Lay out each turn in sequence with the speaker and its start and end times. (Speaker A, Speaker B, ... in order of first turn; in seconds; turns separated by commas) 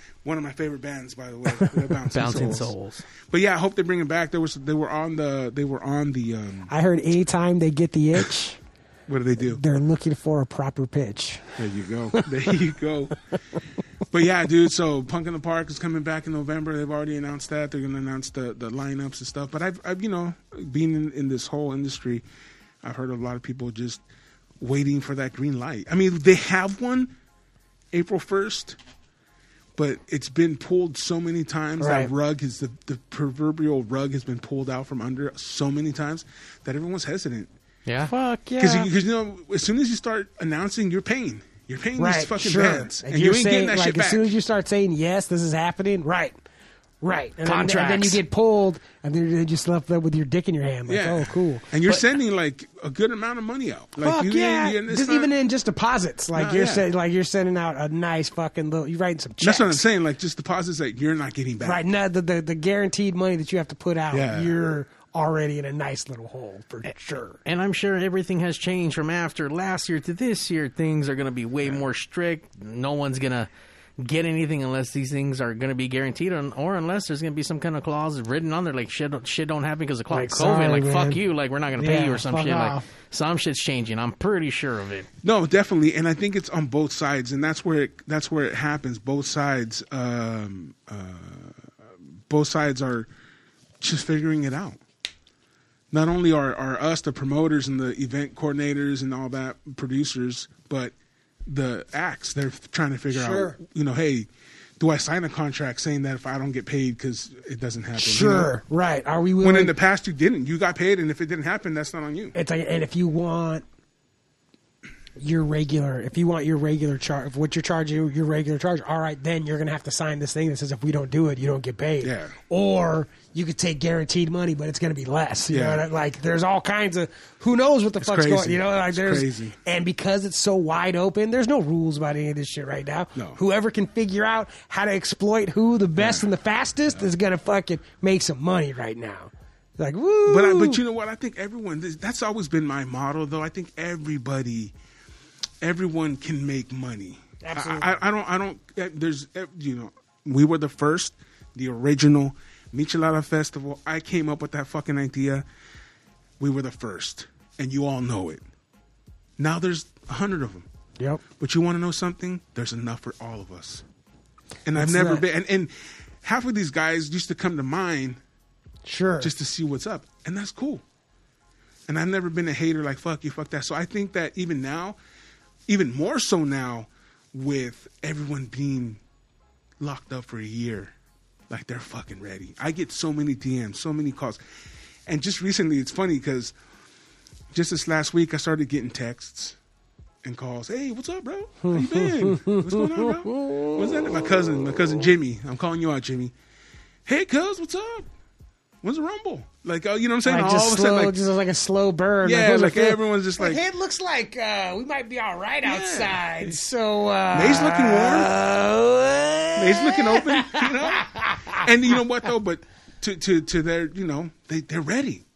Speaker A: 0.2-2.7, Speaker B: 1.4-2.0, Speaker C: 2.1-3.0, Speaker A: 3.2-6.7, Speaker B: 6.7-8.6, Speaker A: 9.1-9.6, Speaker B: 9.4-11.7, Speaker A: 11.6-13.2, Speaker A: 14.1-22.2, Speaker A: 22.8-24.0, Speaker A: 24.6-27.1, Speaker A: 27.9-28.8, Speaker A: 29.7-37.5, Speaker B: 31.8-32.1, Speaker C: 37.9-38.1, Speaker B: 38.0-38.9, Speaker A: 38.6-44.3, Speaker B: 42.0-46.3, Speaker B: 47.0-51.7, Speaker C: 47.4-48.2, Speaker A: 50.9-55.3, Speaker B: 54.0-59.8, Speaker A: 56.3-56.9, Speaker A: 59.4-61.8, Speaker B: 61.6-67.4, Speaker A: 64.1-64.5, Speaker C: 67.4-73.5, Speaker C: 74.0-85.1, Speaker B: 80.1-81.2, Speaker B: 81.8-82.9, Speaker A: 85.2-91.7, Speaker A: 92.3-93.1, Speaker A: 93.8-94.8, Speaker A: 95.9-100.9, Speaker A: 101.5-108.5, Speaker B: 103.1-103.6, Speaker B: 108.0-109.7, Speaker A: 109.4-112.3, Speaker B: 112.3-113.6, Speaker B: 115.2-140.8, Speaker A: 122.0-122.3, Speaker A: 125.5-125.8, Speaker A: 128.0-129.6, Speaker A: 136.0-136.2, Speaker A: 140.3-144.7, Speaker A: 145.6-155.4, Speaker B: 147.4-147.9, Speaker A: 156.4-158.4, Speaker A: 159.4-160.7, Speaker A: 161.4-163.8, Speaker A: 164.7-168.2, Speaker B: 164.7-165.2, Speaker B: 168.8-169.3, Speaker A: 169.2-170.8, Speaker A: 171.9-175.0, Speaker A: 175.7-179.0, Speaker A: 179.8-180.9, Speaker A: 181.5-184.4, Speaker A: 185.1-186.5, Speaker A: 187.5-189.6, Speaker A: 190.2-196.3, Speaker B: 191.6-194.6, Speaker A: 197.1-198.1, Speaker A: 198.8-201.1, Speaker B: 200.2-211.9, Speaker A: 202.2-203.6, Speaker A: 205.6-206.6, Speaker A: 207.3-208.3, Speaker A: 209.6-215.2